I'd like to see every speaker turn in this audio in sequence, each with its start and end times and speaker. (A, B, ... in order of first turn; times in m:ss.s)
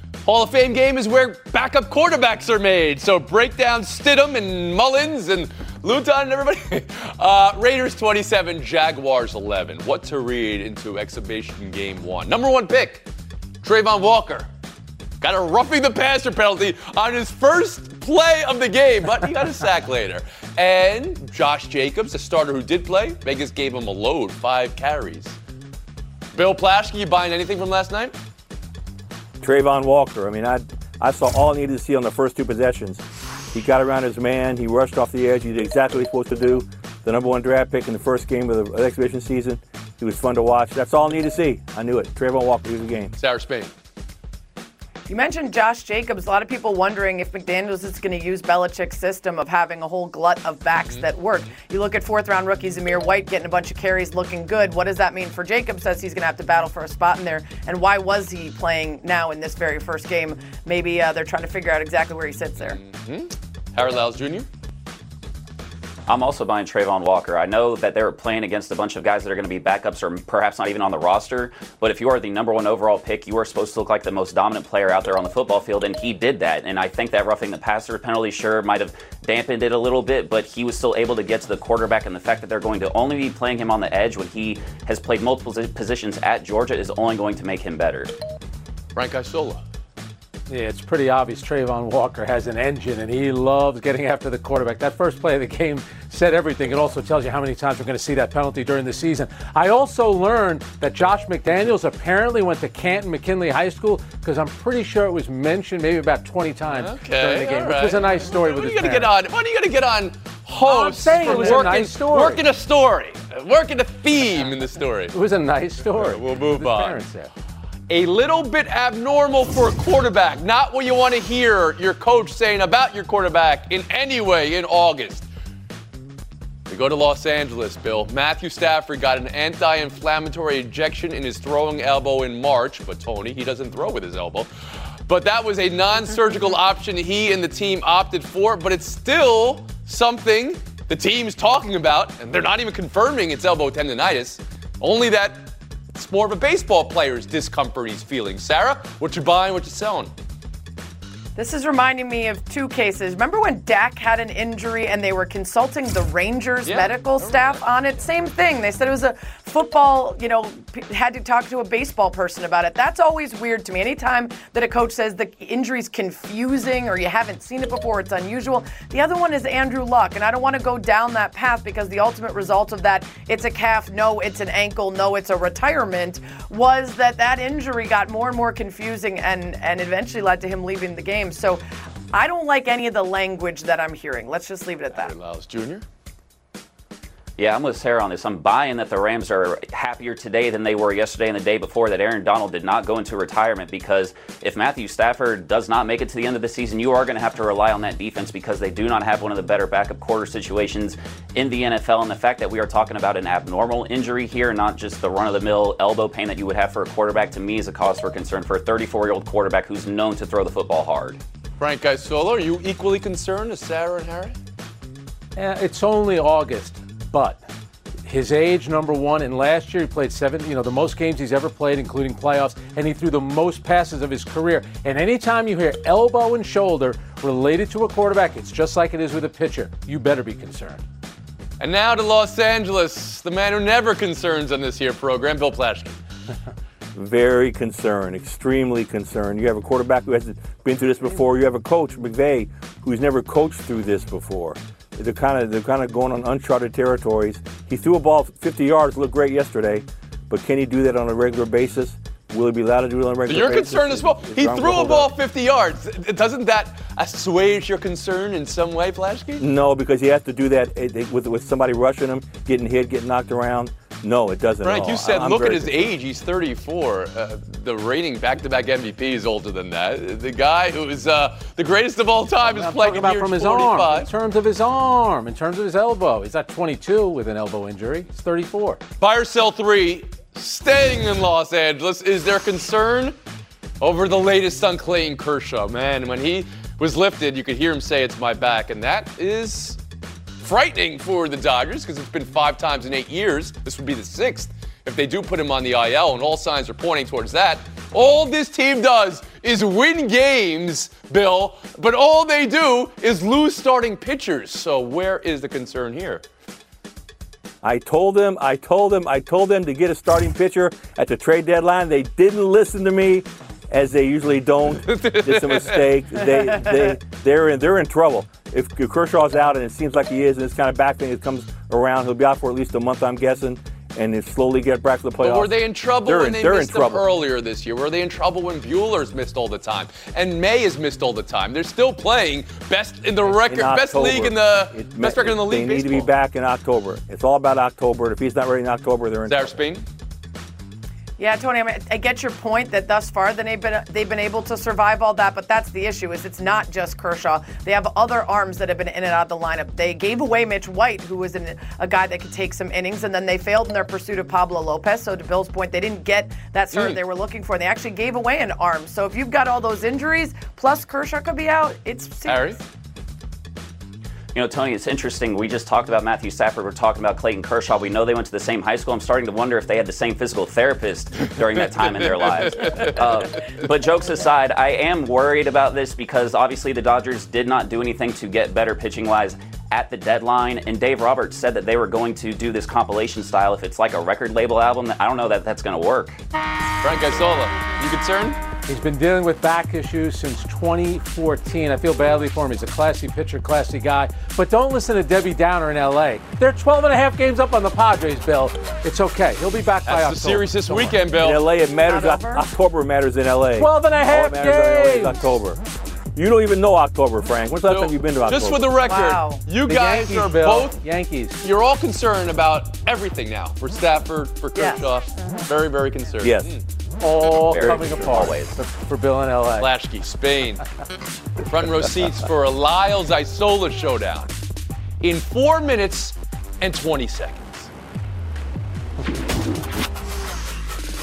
0:00.2-0:13.0 A
0:13.6-0:14.5 A
0:15.2-0:25.4 A
0:26.3-0:28.1 A
0:29.4-0:33.0 B
0:33.5-0:43.2 B
0:43.2-0:43.7 A
0:45.1-1:02.8 C
1:02.6-1:04.5 A
1:06.1-1:28.1 D
1:28.9-1:29.6 A
1:30.5-1:49.1 E
1:46.7-1:55.1 A
1:50.6-1:52.4 E
1:55.1-1:57.3 E
1:55.9-1:57.0 A
1:57.9-2:05.2 A
2:06.7-2:14.5 A
2:15.1-2:30.1 A
2:31.4-3:01.6 C
2:36.6-2:37.6 A
3:02.1-3:05.1 C
3:04.9-3:05.8 A
3:07.4-3:31.2 D
3:31.6-3:34.4 A
3:35.4-3:37.4 E
3:38.0-3:50.8 E
3:51.6-3:56.0 A
3:56.9-4:15.1 B
4:13.3-4:19.5 A
4:19.4-4:25.9 B
4:24.6-4:34.1 A
4:32.4-4:38.8 E
4:39.0-4:43.2 A
4:43.8-4:49.8 A
4:50.4-5:06.2 A
5:07.6-5:27.1 B
5:14.8-5:16.0 A
5:25.2-5:36.1 A
5:33.2-5:39.6 B
5:39.2-5:39.8 A
5:41.2-6:02.6 C
5:56.7-5:57.0 A
6:02.2-6:02.6 A
6:04.3-6:26.2 D
6:12.1-6:12.9 A
6:26.8-6:28.4 A
6:28.7-6:41.0 E
6:39.8-6:41.4 A
6:41.2-6:45.6 B
6:41.8-6:42.4 C
6:43.6-6:45.4 E
6:46.1-6:48.7 B
6:47.6-6:50.8 A
6:48.8-6:49.4 C
6:49.7-6:51.4 E
6:51.4-6:56.6 A
6:54.5-6:55.4 C
6:56.2-6:56.5 B
6:57.0-6:59.7 E
6:57.3-6:58.5 D
6:57.6-6:58.2 B
6:59.6-7:00.6 A
7:01.5-7:04.3 A
7:05.0-7:07.7 A